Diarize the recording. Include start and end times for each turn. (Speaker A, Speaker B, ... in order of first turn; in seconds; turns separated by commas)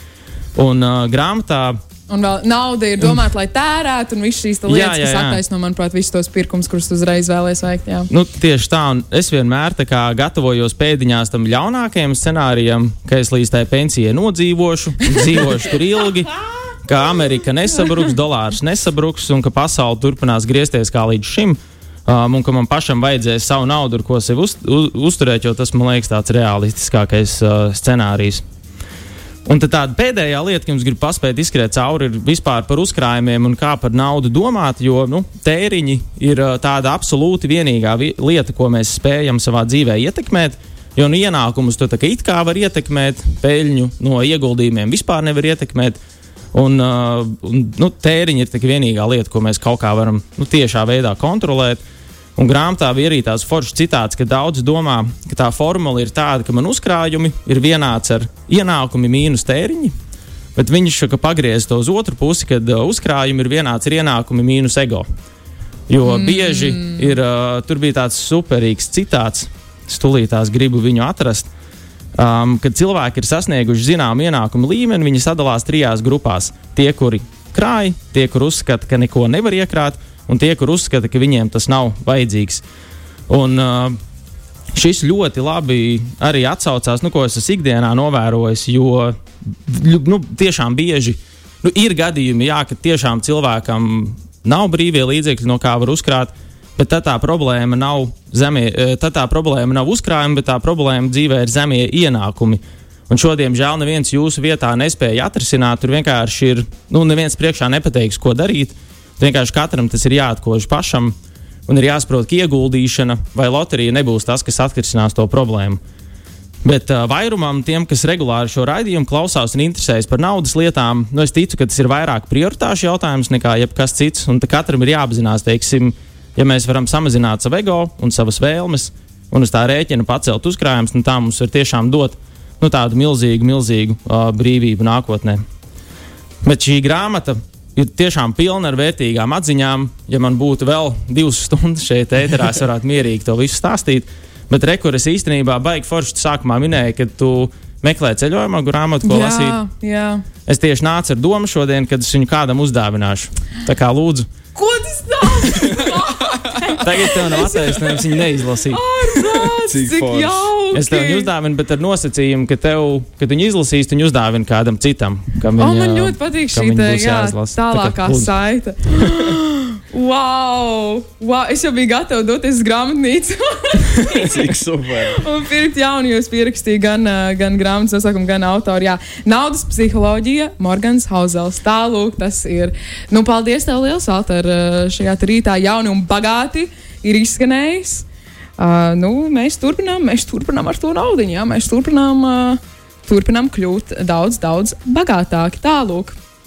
Speaker A: 0.5-1.8, Speaker B: 2.1-8.1, Speaker A: 4.7-5.4, Speaker A: 8.1-28.4, Speaker A: 29.4-46.0, Speaker A: 46.5-51.8, Speaker A: 52.4-59.9, Speaker A: 60.5-65.0, Speaker A: 65.9-71.5, Speaker B: 66.1-67.0, Speaker A: 72.2-82.6, Speaker A: 83.3-84.0, Speaker A: 84.7-111.1, Speaker A: 111.7-115.8, Speaker A: 116.6-135.4, Speaker A: 136.4-149.6, Speaker B: 149.0-150.2, Speaker A: 150.5-154.3, Speaker B: 154.6-158.0, Speaker A: 156.8-158.8, Speaker B: 158.7-161.3, Speaker C: 159.1-160.5, Speaker A: 160.7-168.3, Speaker B: 165.6-174.5, Speaker C: 173.9-175.2, Speaker B: 175.1-188.0, Speaker B: 188.6-196.2